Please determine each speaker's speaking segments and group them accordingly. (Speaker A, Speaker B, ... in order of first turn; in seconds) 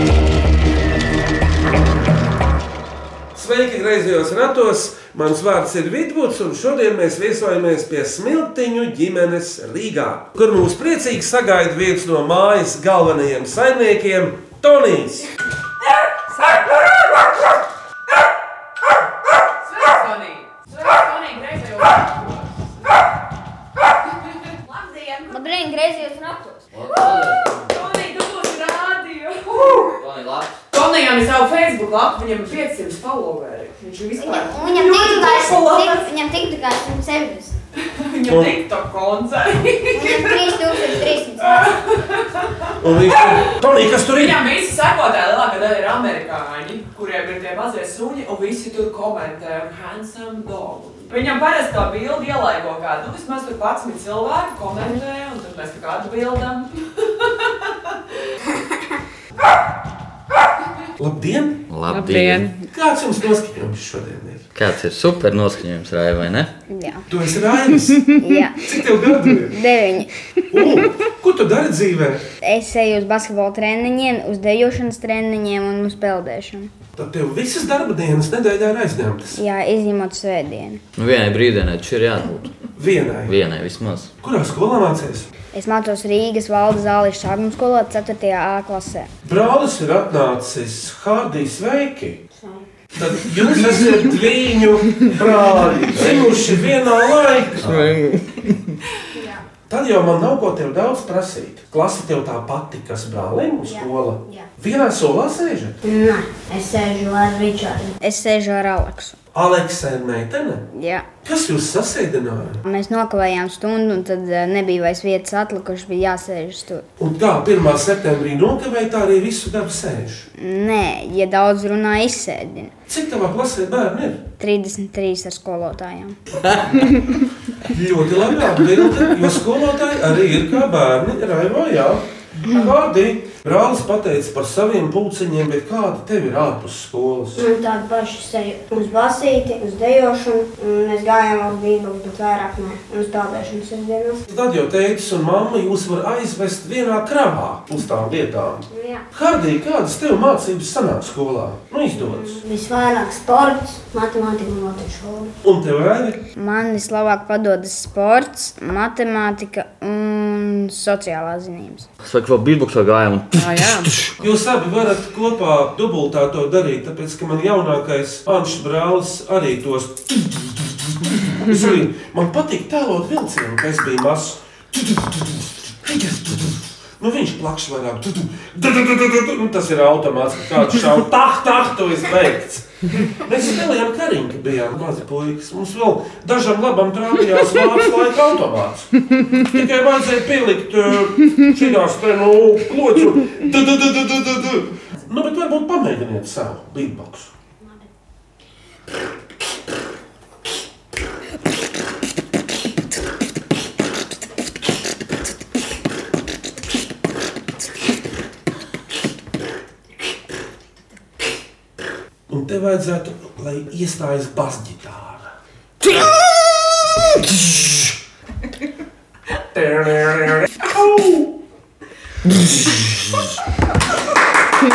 Speaker A: 3.3-15.3, 38.3-38.6, 42.8-44.4, 61.0-61.6, 62.7-64.4, 67.1-68.1, 68.6-69.6, 70.5-72.2, 77.0-79.4, 82.8-83.3, 84.2-85.3, 89.2-92.2, 93.0-98.0, 99.7-105.8, 109.3-110.6, 111.2-112.6, 117.0-120.3, 122.9-124.2, 127.6-137.4, 144.3-152.4, 155.4-156.2, 164.2-188.9, 189.4-197.3, 212.3-215.3, 219.5-221.3, 222.6-223.0
Speaker B: 16.3-16.7, 19.6-22.7, 24.6-25.4, 27.7-29.9, 30.7-36.1, 38.0-56.7, 61.9-62.7, 163.3-163.9
Speaker C: 25.3-26.6, 34.2-37.5, 39.9-41.7, 66.7-67.0, 68.2-68.8, 69.5-70.7, 72.4-76.7, 79.3-80.8, 85.5-89.1, 108.0-109.2, 110.7-111.0, 112.6-116.8, 120.4-122.7, 124.4-126.2, 156.3-161.9
Speaker D: 26.7-27.8, 29.9-30.6, 61.7-62.5, 64.5-66.5, 81.0-82.5, 83.2-84.1, 96.0-96.2, 97.6-98.7, 162.0-164.1
Speaker E: 92.3-92.7, 103.7-104.4, 105.8-108.0, 137.3-144.2, 148.7-149.0, 151.9-155.3